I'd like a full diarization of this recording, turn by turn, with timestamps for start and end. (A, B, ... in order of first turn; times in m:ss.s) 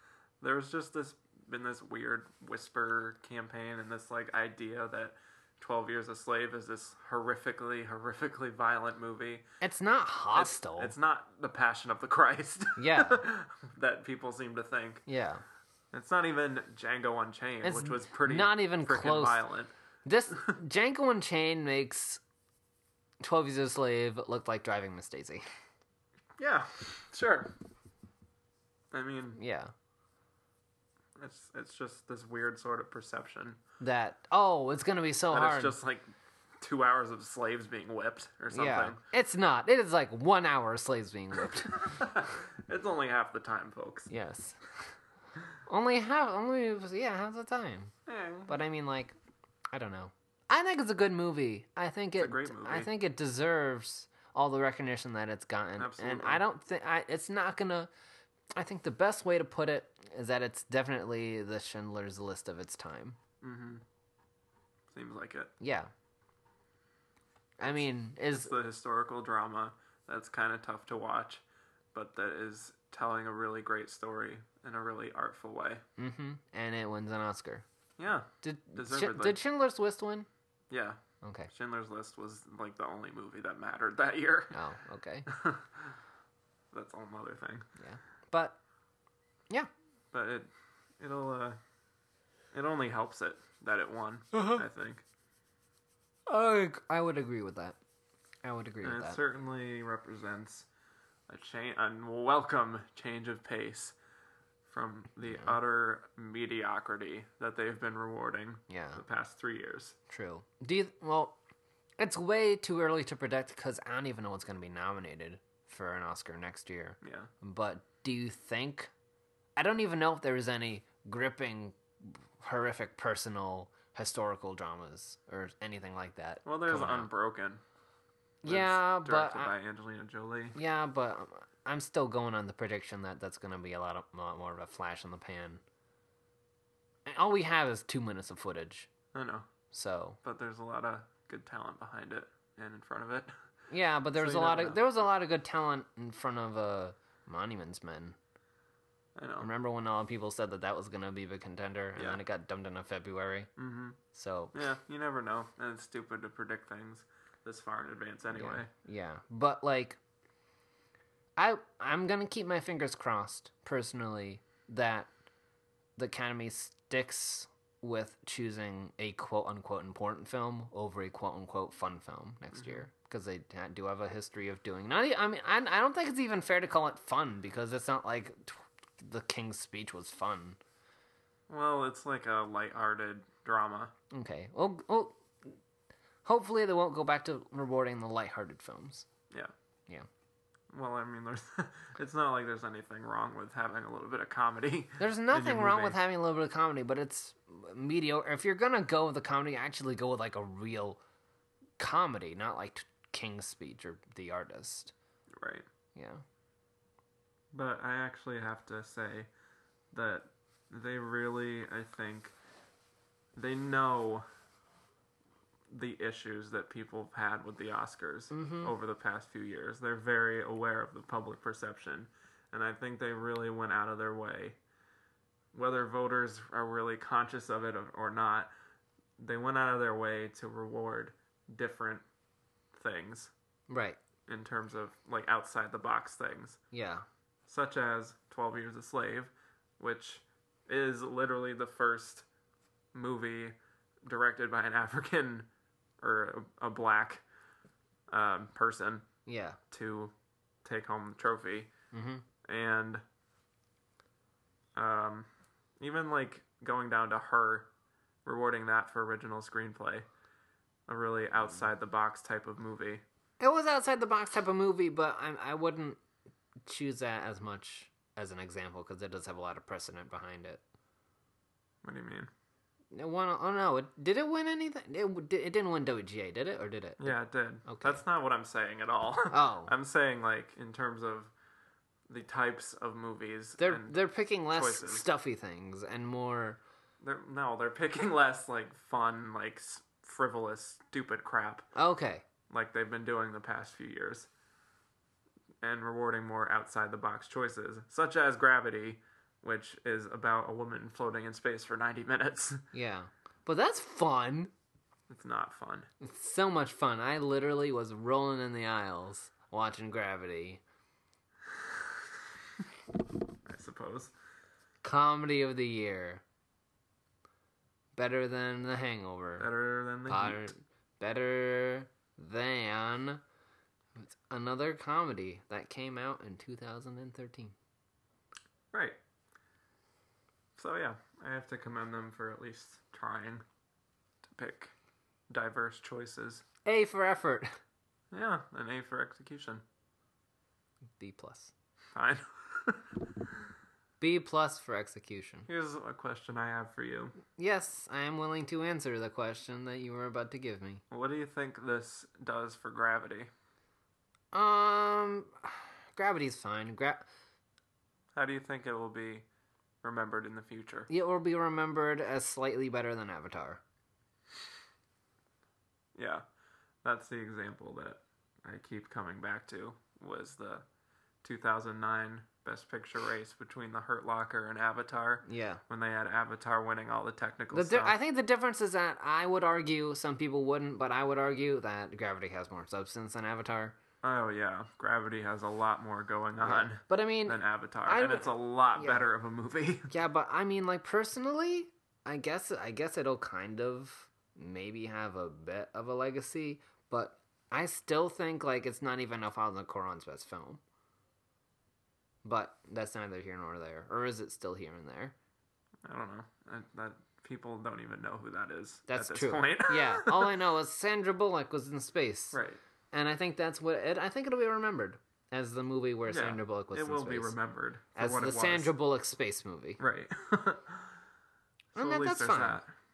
0:00.4-0:09.4 A
0:09.6-0:10.9 B
0:10.3-0:15.0 A
0:12.8-0:13.2 B
0:15.1-0:15.4 B
0:15.9-0:19.7 A
0:17.6-0:19.4 B
0:20.0-0:22.2 B
0:23.2-0:25.4 B
0:26.4-0:27.5 A
0:28.9-0:29.4 A
0:29.4-0:29.7 B
0:31.2-0:33.6 A
0:33.8-0:35.8 B
0:35.3-0:39.0 A
0:38.5-0:42.1 B
0:41.7-0:44.1 A
0:44.1-0:44.6 B
0:45.7-0:47.9 B
0:48.1-0:48.5 A
0:48.5-0:49.2 B
0:49.7-0:57.9 B
0:52.2-0:52.9 A
0:55.8-0:56.4 A
0:58.6-1:03.2 B
1:03.4-1:03.8 A
1:04.9-1:05.5 A
1:05.6-1:05.9 B
1:07.6-1:08.5 B
1:08.3-1:11.4 A
1:11.9-1:15.8 A
1:16.0-1:17.6 B
1:18.0-1:19.4 A
1:18.4-1:20.3 B
1:20.7-1:24.6 A
1:21.2-1:21.5 B
1:24.5-1:25.3 B
1:25.3-1:25.9 A
1:26.7-1:27.7 A
1:27.8-1:28.6 B
1:30.1-1:31.6 A
1:32.5-1:35.0 A
1:34.3-1:34.6 B
1:36.3-1:37.8 B
1:38.4-1:39.2 B
1:38.8-1:40.7 A
1:41.3-1:44.0 A
1:44.7-1:50.0 A
1:48.7-1:49.0 B
1:50.1-1:51.4 B
1:52.0-1:58.9 B
1:57.0-1:57.3 A
1:59.6-2:07.1 B
2:06.4-2:07.6 A
2:08.4-2:09.5 B
2:08.5-2:10.6 A
2:10.6-2:15.6 B
2:17.1-2:18.9 B
2:19.1-2:19.5 A
2:19.7-2:20.2 B
2:20.2-2:23.3 A
2:23.7-2:28.2 B
2:24.1-2:24.8 A
2:29.2-2:29.5 A
2:29.4-2:33.5 B
2:32.0-2:32.2 A
2:33.6-2:34.0 A
2:34.1-2:34.6 B
2:34.5-2:38.7 A
2:38.3-2:40.0 B
2:41.4-2:45.1 B
2:46.0-3:00.6 B
3:01.5-3:03.9 A
3:04.1-3:05.2 B
3:06.2-3:09.1 B
3:10.7-3:16.0 A
3:15.0-3:21.0 B
3:21.8-3:24.9 B
3:25.4-3:25.7 A
3:26.0-3:26.2 B
3:27.5-3:29.3 A
3:29.9-3:32.4 A
3:33.4-3:34.2 A
3:35.7-3:44.6 A
3:38.3-3:38.7 B
3:45.5-3:48.5 A
3:49.2-3:52.0 A
3:52.7-3:53.3 A
3:53.7-3:54.0 B
3:54.3-3:56.6 A
3:56.7-3:57.0 B
3:57.5-4:02.3 A
4:02.9-4:05.5 A
4:06.0-4:07.2 A
4:08.1-4:09.1 A
4:09.3-4:09.6 B
4:09.7-4:10.1 A
4:10.6-4:11.7 A
4:11.9-4:12.2 B
4:12.4-4:13.0 A
4:14.8-4:15.3 A
4:15.8-4:17.7 A
4:18.2-4:20.1 A
4:20.9-4:23.0 A
4:23.4-4:26.0 B
4:26.7-4:30.6 B
4:31.8-4:32.3 A
4:32.9-4:38.0 B
4:37.0-4:41.3 A
4:39.3-4:39.7 B
4:42.1-4:44.0 A
4:43.6-4:46.6 B
4:44.5-4:45.0 A
4:47.0-4:51.7 A
4:51.8-4:52.2 B
4:52.5-4:54.3 A
4:55.6-5:02.6 A
5:02.7-5:04.5 B
5:05.1-5:05.9 A
5:06.0-5:10.6 B
5:13.4-5:14.1 A
5:14.8-5:16.2 B
5:18.0-5:19.5 B
5:19.4-5:20.4 A
5:20.1-5:23.2 B
5:24.0-5:27.6 B
5:28.7-5:29.0 A
5:30.6-5:33.4 A
5:34.2-5:34.7 A
5:35.3-5:36.4 A
5:36.6-5:37.6 B
5:38.1-5:39.6 A
5:41.0-5:41.5 B
5:42.0-5:43.4 A
5:44.0-5:45.5 B
5:45.5-5:47.2 A
5:47.4-5:50.8 B
5:50.9-5:53.3 A
5:54.3-5:57.1 B
5:58.2-5:59.3 A
5:59.8-6:00.9 A
6:00.9-6:03.6 B
6:06.0-6:06.2 A
6:06.8-6:10.6 A
6:11.2-6:18.0 A
6:15.2-6:15.6 B
6:17.5-6:23.8 B
6:24.0-6:29.9 A
6:26.4-6:29.0 B
6:29.9-6:40.6 B
6:42.2-6:45.2 B
6:45.8-6:50.4 A
6:48.9-6:52.4 B
6:52.3-6:52.6 A
6:52.9-6:57.4 B
6:56.1-6:58.7 A
6:58.0-6:59.8 B
6:59.8-7:00.9 A
7:01.8-7:02.7 A
7:01.8-7:02.6 B